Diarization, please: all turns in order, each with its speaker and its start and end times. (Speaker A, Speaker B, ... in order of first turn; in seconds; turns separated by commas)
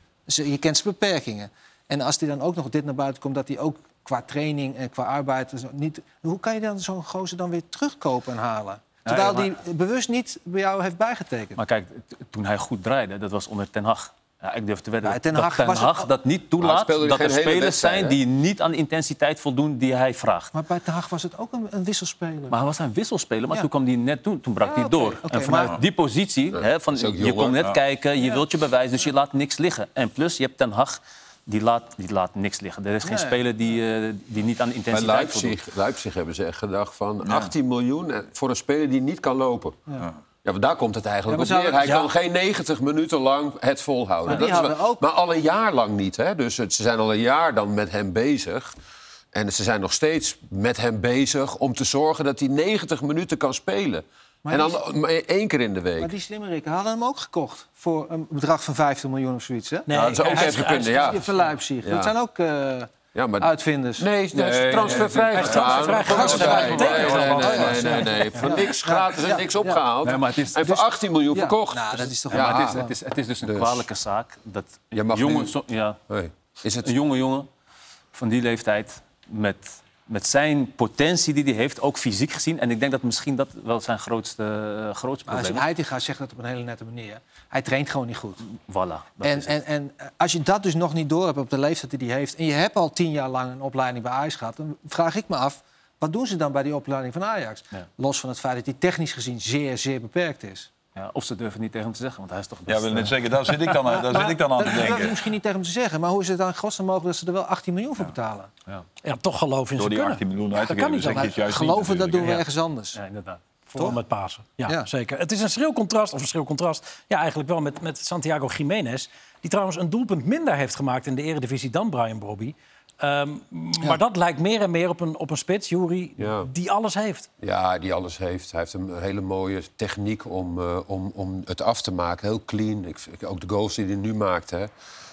Speaker A: 0.3-11.6, Speaker B: 9.1-9.5, Speaker B: 11.6-20.5, Speaker A: 15.0-16.1, Speaker C: 16.6-18.2, Speaker A: 20.5-22.6, Speaker B: 22.5-35.6, Speaker A: 24.6-25.8, Speaker C: 26.5-27.6, Speaker A: 33.0-33.4, Speaker C: 34.9-39.8, Speaker C: 40.4-48.7, Speaker A: 41.3-42.1, Speaker A: 44.2-45.0, Speaker C: 49.3-56.1, Speaker A: 54.4-54.8, Speaker A: 56.0-64.1, Speaker D: 59.9-61.1, Speaker C: 59.9-62.1, Speaker C: 63.1-72.8, Speaker B: 64.7-65.3, Speaker D: 65.3-68.1, Speaker E: 66.0-67.7, Speaker A: 66.1-69.8, Speaker B: 70.0-70.6, Speaker A: 70.6-72.9, Speaker B: 72.3-76.0, Speaker C: 73.4-73.9, Speaker C: 74.9-75.5, Speaker C: 76.1-76.9, Speaker B: 76.8-77.5, Speaker B: 78.1-85.7, Speaker A: 85.3-88.5, Speaker B: 88.6-89.5, Speaker A: 89.2-100.7, Speaker B: 101.0-103.7, Speaker E: 102.7-105.2, Speaker A: 103.8-108.5, Speaker D: 109.0-111.3, Speaker E: 109.8-112.4, Speaker A: 111.1-113.0, Speaker B: 112.9-113.4, Speaker D: 113.7-127.3, Speaker C: 126.2-126.5, Speaker C: 127.4-134.7